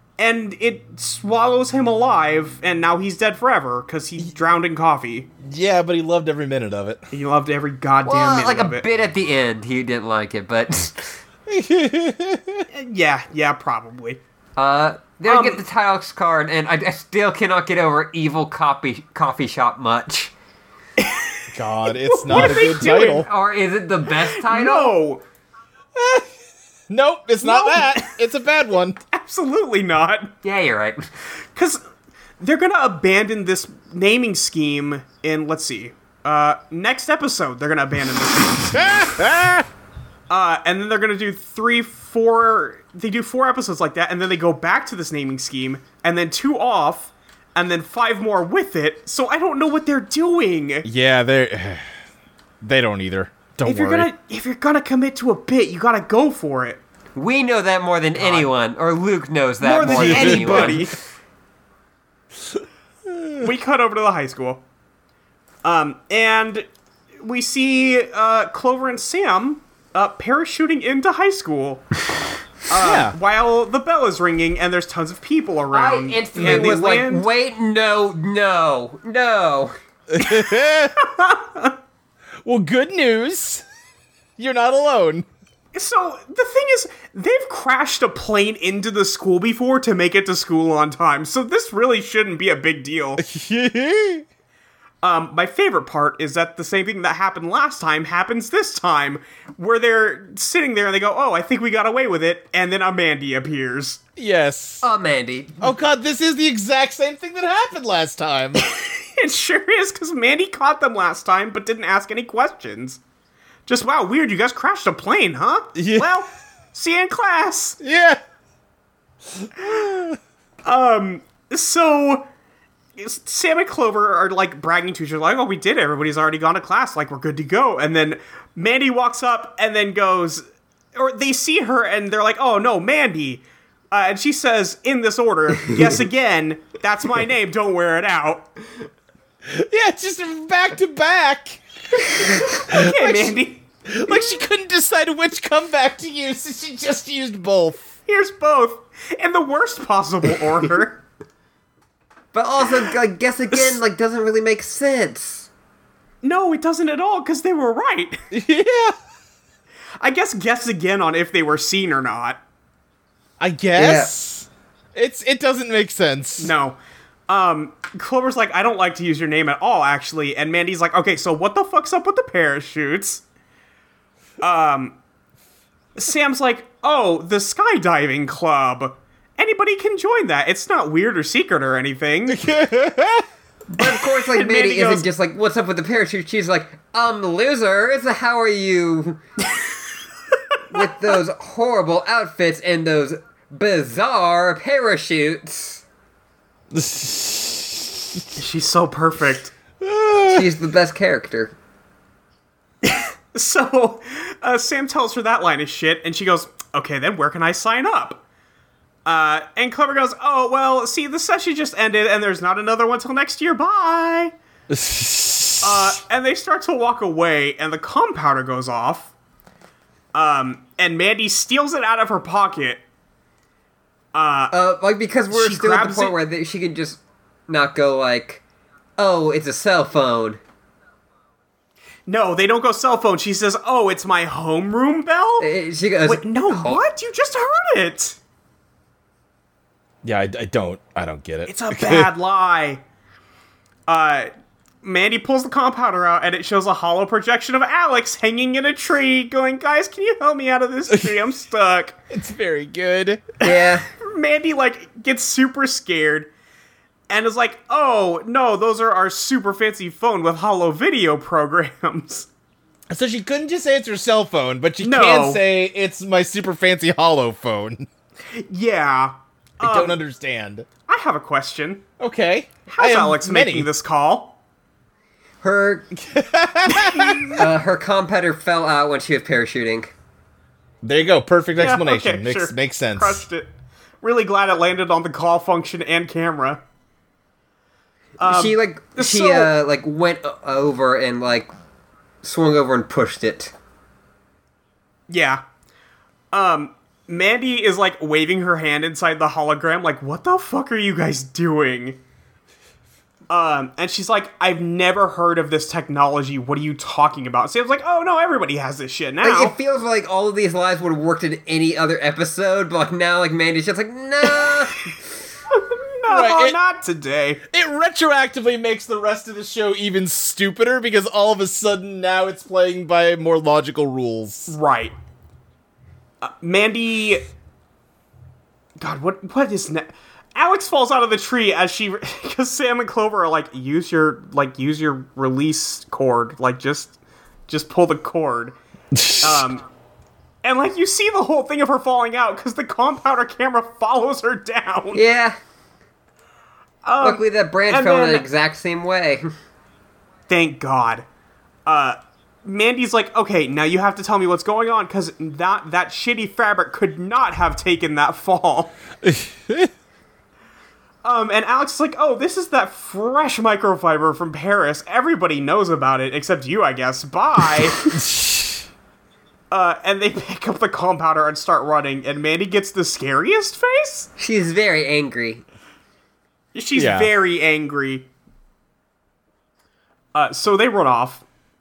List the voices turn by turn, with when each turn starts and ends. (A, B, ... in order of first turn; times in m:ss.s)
0:00.2-0:05.3 A
0:05.4-0:07.0 B
0:07.1-0:08.8 A
0:08.0-0:11.2 C
0:11.5-0:12.6 B
0:12.7-0:14.2 A
0:14.6-0:20.3 C
0:15.2-0:15.6 A
0:21.0-0:23.2 A
0:21.5-0:23.3 B
0:22.3-0:24.9 C
0:24.1-0:25.2 A
0:26.0-0:26.2 B
0:26.9-0:29.0 B
0:27.4-0:28.1 A
0:29.1-0:30.3 A
0:30.4-0:31.1 C
0:31.5-0:31.8 A
0:32.4-0:39.2 A
0:38.7-0:39.7 B
0:40.3-0:50.9 A
0:50.8-0:51.9 B
0:52.6-0:54.1 B
0:53.6-0:56.8 A
0:57.1-1:00.9 C
0:58.2-0:58.5 A
0:59.6-1:00.9 A
0:59.8-1:00.9 B
1:03.1-1:03.5 B
1:03.4-1:04.6 A
1:05.6-1:06.6 A
1:07.2-1:11.9 A
1:12.7-1:17.2 A
1:12.8-1:13.1 B
1:15.7-1:19.7 C
1:16.4-1:16.7 B
1:20.1-1:21.0 B
1:20.2-1:21.7 A
1:22.4-1:23.6 B
1:24.4-1:25.2 B
1:25.7-1:33.2 A
1:33.2-1:34.2 B
1:35.0-1:44.0 A
1:44.2-1:44.8 B
1:44.8-1:45.6 C
1:45.6-1:48.6 B
1:48.6-1:53.0 A
1:53.7-1:57.8 A
1:55.8-1:56.1 B
1:57.8-1:58.2 B
1:59.3-2:00.2 B
2:00.6-2:02.3 A
2:03.0-2:10.4 A
2:10.9-2:18.5 A
2:19.5-2:23.3 B
2:22.2-2:24.2 A
2:23.9-2:27.9 B
2:28.1-2:31.0 A
2:32.3-2:35.5 C
2:36.2-2:38.2 A
2:38.3-2:38.9 B
2:40.0-2:42.4 A
2:43.4-2:46.5 B
2:43.8-2:44.1 C
2:46.4-2:46.8 A
2:47.3-2:53.2 A
2:54.4-2:55.0 A
2:55.9-3:02.5 A
3:02.3-3:03.2 B
3:03.7-3:09.2 C
3:03.8-3:05.1 A
3:10.7-3:15.8 C
3:16.7-3:18.2 B
3:18.4-3:19.5 A
3:19.8-3:20.5 B
3:20.3-3:21.5 C
3:22.8-3:28.2 A
3:29.0-3:34.3 A
3:34.7-3:35.9 B
3:35.6-3:39.1 A
3:40.1-3:42.8 A
3:44.1-3:44.6 A
3:44.5-3:48.4 C
3:45.3-3:46.2 A
3:49.0-3:50.4 C
3:52.1-3:55.5 A
3:55.4-3:56.8 C
3:56.0-3:58.2 A
4:00.0-4:02.1 B
4:01.5-4:02.8 A
4:03.9-4:04.3 A
4:04.8-4:12.0 A
4:12.1-4:13.2 B
4:13.4-4:13.9 C
4:13.4-4:16.3 A
4:17.1-4:22.3 A
4:22.9-4:27.9 B
4:24.8-4:25.4 A
4:28.3-4:30.0 A
4:29.6-4:30.6 B
4:30.9-4:31.8 A
4:32.0-4:33.7 B
4:32.7-4:34.4 A
4:35.4-4:35.9 C
4:35.9-4:37.4 B
4:36.7-4:37.4 A
4:37.4-4:39.9 C
4:40.8-4:43.2 B
4:41.6-4:43.5 A
4:44.0-4:46.6 A
4:48.2-4:49.5 A
4:48.2-4:51.5 C
4:52.2-4:53.5 C
4:55.1-4:55.4 A
4:56.3-5:02.0 A
5:03.3-5:09.5 A
5:09.2-5:14.9 C
5:14.3-5:14.9 A
5:15.5-5:17.4 A
5:16.1-5:16.6 B
5:17.5-5:24.5 B
5:24.5-5:24.9 A
5:26.2-5:27.3 A
5:28.8-5:37.0 A
5:37.5-5:38.6 A
5:38.9-5:39.5 B
5:39.2-5:39.6 A
5:40.4-5:45.0 A
5:44.9-5:45.4 C
5:46.8-5:48.2 A
5:47.0-5:49.3 C
5:50.3-5:51.0 A
5:51.6-5:58.7 A
5:59.0-5:59.7 B
6:01.0-6:07.8 A
6:07.9-6:08.6 B
6:09.5-6:14.1 A
6:14.2-6:15.4 C
6:16.5-6:18.1 A
6:16.7-6:17.1 B
6:20.1-6:21.2 A